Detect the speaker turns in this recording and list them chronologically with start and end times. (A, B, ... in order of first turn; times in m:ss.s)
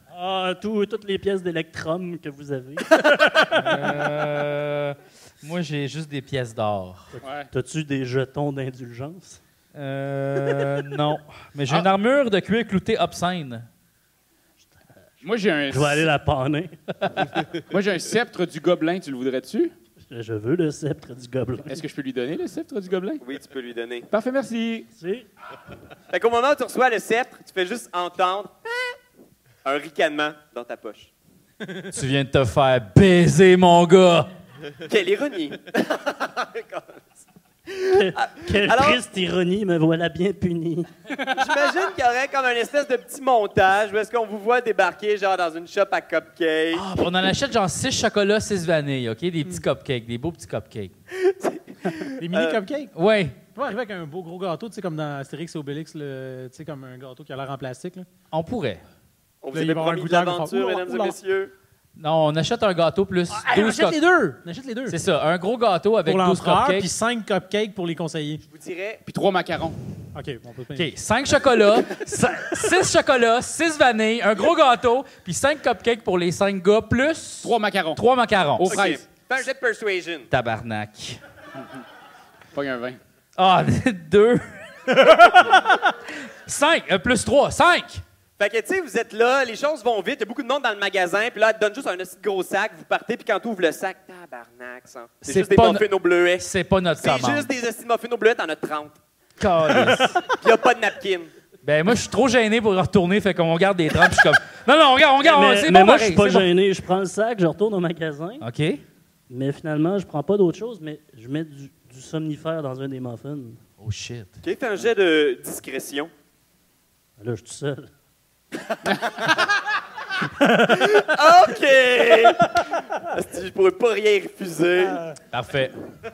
0:00.1-0:03.4 A
0:03.5-0:07.1 B
0:07.2-0:07.5 C
0:07.5-0:09.4 A
0:09.7-0:13.7 B
0:15.2-0:16.1 C
0:15.7-0:16.7 A
0:17.7-0:19.7 C
0:20.0-0:21.8 A
0:21.7-0:23.2 C
0:23.2-0:24.1 D
0:24.1-0:24.9 C
0:24.9-0:25.3 A
0:26.1-0:29.0 D
0:29.6-0:31.1 D
0:31.9-0:34.3 B
0:34.8-0:39.0 D
0:37.8-0:40.9 A
0:41.3-0:46.8 D
0:46.7-0:50.9 B
0:51.1-0:52.6 D
0:52.2-0:52.9 E
0:52.9-0:53.4 B
0:53.5-0:58.1 E
0:58.3-0:58.8 B
0:59.4-1:01.5 D
0:59.5-1:01.2 E
1:02.0-1:04.0 B
1:03.3-1:05.0 E
1:04.9-1:06.9 B
1:06.0-1:08.4 E
1:08.5-1:09.0 D
1:09.0-1:09.8 C
1:10.1-1:10.9 E
1:10.8-1:18.8 B
1:17.4-1:18.0 C
1:18.6-1:19.0 C
1:18.7-1:20.3 D
1:20.3-1:21.2 B
1:22.5-1:23.0 C
1:23.4-1:28.0 B
1:28.4-1:36.5 D
1:35.2-1:35.8 B
1:36.4-1:37.5 B
1:37.0-1:39.0 D
1:39.4-1:40.2 B
1:39.8-1:40.3 E
1:40.3-1:41.3 D
1:41.6-1:46.5 B
1:45.2-1:48.4 A
1:48.4-1:48.8 B
1:49.3-1:53.6 A
1:53.8-1:54.3 B
1:54.4-1:56.1 D
1:57.2-1:57.9 A
1:58.9-1:59.2 C
2:00.3-2:00.9 E
2:00.7-2:05.0 D
2:05.3-2:05.7 B